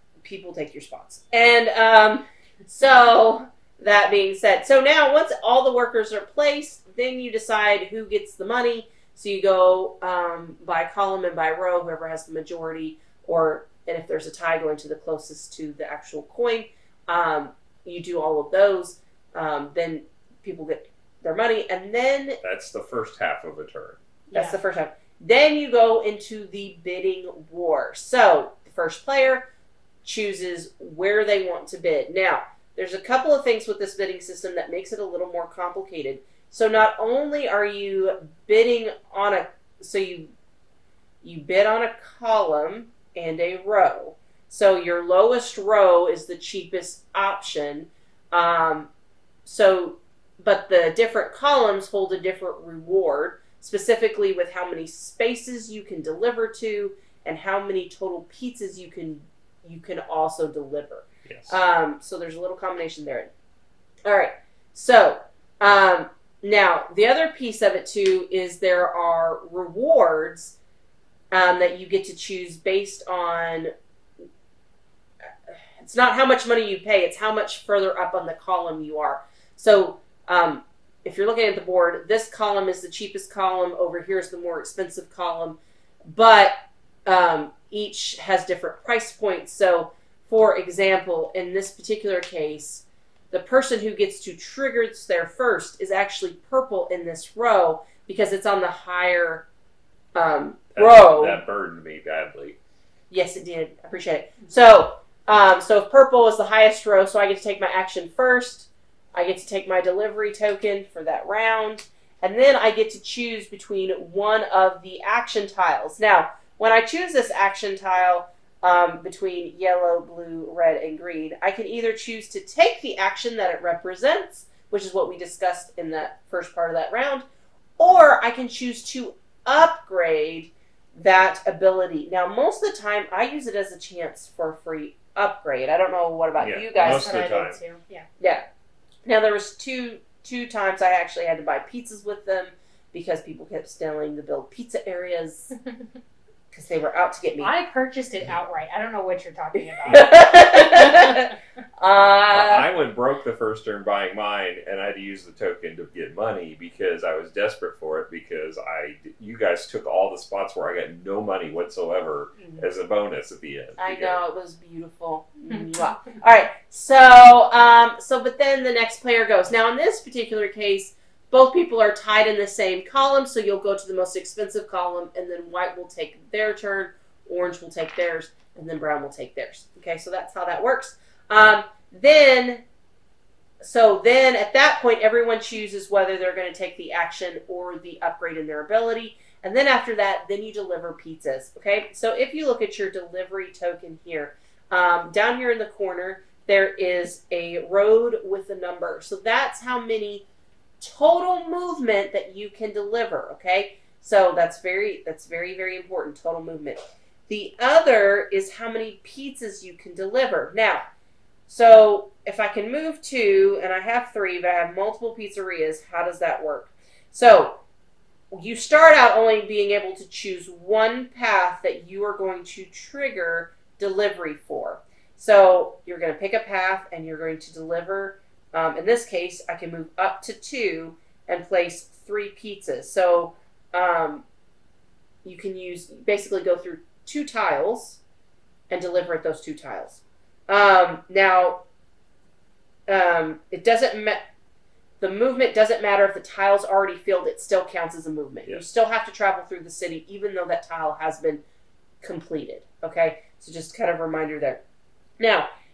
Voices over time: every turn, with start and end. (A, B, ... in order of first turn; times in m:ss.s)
0:00.2-0:22.4 A
0:22.4-0:24.0 B
0:24.3-0:24.6 C
0:24.3-0:29.4 A
0:30.0-0:40.3 A
0:41.2-0:48.9 A
0:49.4-1:03.3 A
1:01.2-1:01.6 B
1:04.0-1:10.5 A
1:11.3-1:13.7 A
1:15.5-1:25.6 A
1:26.1-1:39.4 A
1:40.1-1:41.4 A
1:40.7-1:42.6 B
1:43.1-2:07.2 A
2:07.8-2:17.2 A
2:16.4-2:17.6 B
2:16.8-2:18.1 C
2:18.2-2:18.4 A
2:19.0-2:25.5 A
2:26.5-2:27.5 A
2:27.4-2:31.1 C
2:29.8-2:32.7 A
2:32.3-2:44.2 B
2:43.8-3:02.6 A
3:03.6-3:20.2 A
3:20.8-3:30.8 A
3:31.5-3:37.6 A
3:38.3-3:54.2 A
3:55.2-3:58.0 A
3:58.7-4:01.6 A
4:02.9-4:04.2 A
4:05.0-4:11.4 A
4:12.0-4:14.6 A
4:15.2-4:15.5 A